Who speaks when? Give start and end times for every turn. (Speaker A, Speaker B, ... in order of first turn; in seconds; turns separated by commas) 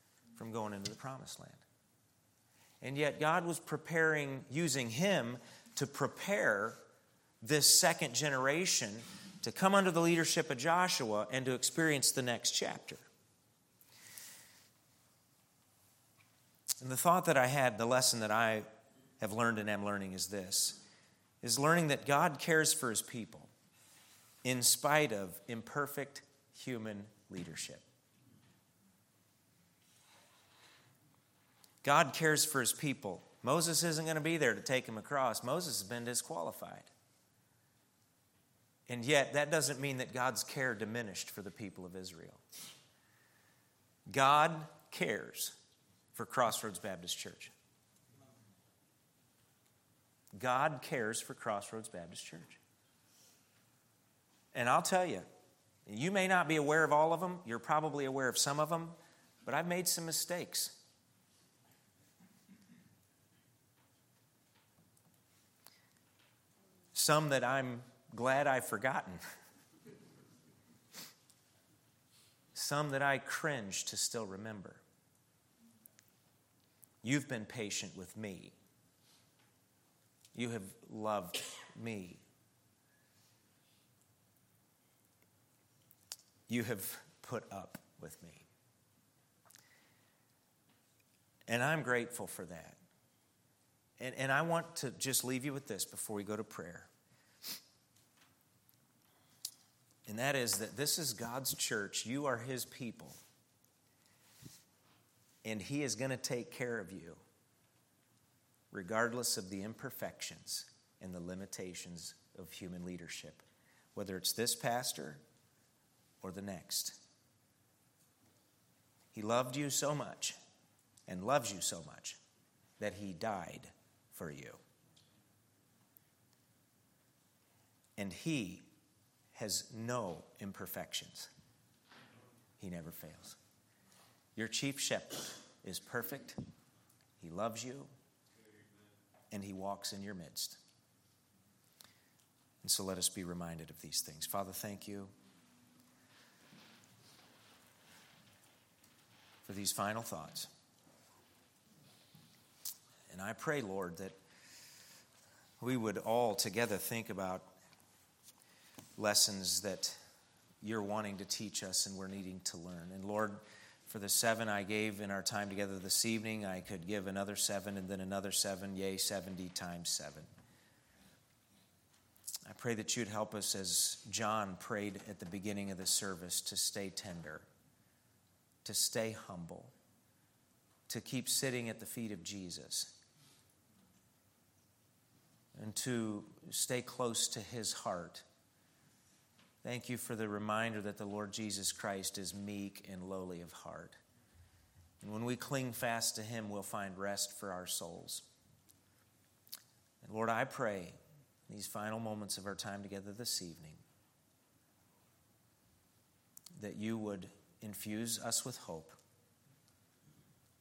Speaker A: 0.4-1.6, Speaker A: 2.8-6.8, Speaker A: 7.4-13.1, Speaker A: 16.8-18.7, Speaker A: 19.2-20.8, Speaker A: 21.4-23.5, Speaker A: 24.4-27.9, Speaker A: 31.8-36.9, Speaker A: 38.9-42.4, Speaker A: 44.1-45.6, Speaker A: 46.1-47.5, Speaker A: 50.3-52.6, Speaker A: 54.5-55.2, Speaker A: 55.9-60.8, Speaker A: 66.9-69.2, Speaker A: 72.5-74.8, Speaker A: 77.0-78.5, Speaker A: 80.3-82.2, Speaker A: 86.5-88.5, Speaker A: 91.5-92.8, Speaker A: 94.0-96.9, Speaker A: 100.1-103.2, Speaker A: 105.4-107.2, Speaker A: 108.7-113.4, Speaker A: 114.0-115.2, Speaker A: 116.2-117.0, Speaker A: 119.1-120.4, Speaker A: 121.1-122.2, Speaker A: 122.8-124.6, Speaker A: 128.0-128.7, Speaker A: 129.3-131.3, Speaker A: 132.6-133.4, Speaker A: 134.4-136.4, Speaker A: 137.2-137.9, Speaker A: 139.3-140.6, Speaker A: 142.6-145.1, Speaker A: 149.4-150.5, Speaker A: 153.1-154.2, Speaker A: 155.6-157.5, Speaker A: 159.0-160.0, Speaker A: 160.6-170.3, Speaker A: 172.5-177.5, Speaker A: 178.7-179.7, Speaker A: 180.9-183.0, Speaker A: 185.6-188.2, Speaker A: 189.6-194.0, Speaker A: 195.0-198.3, Speaker A: 200.0-201.0, Speaker A: 201.5-203.8, Speaker A: 206.6-209.0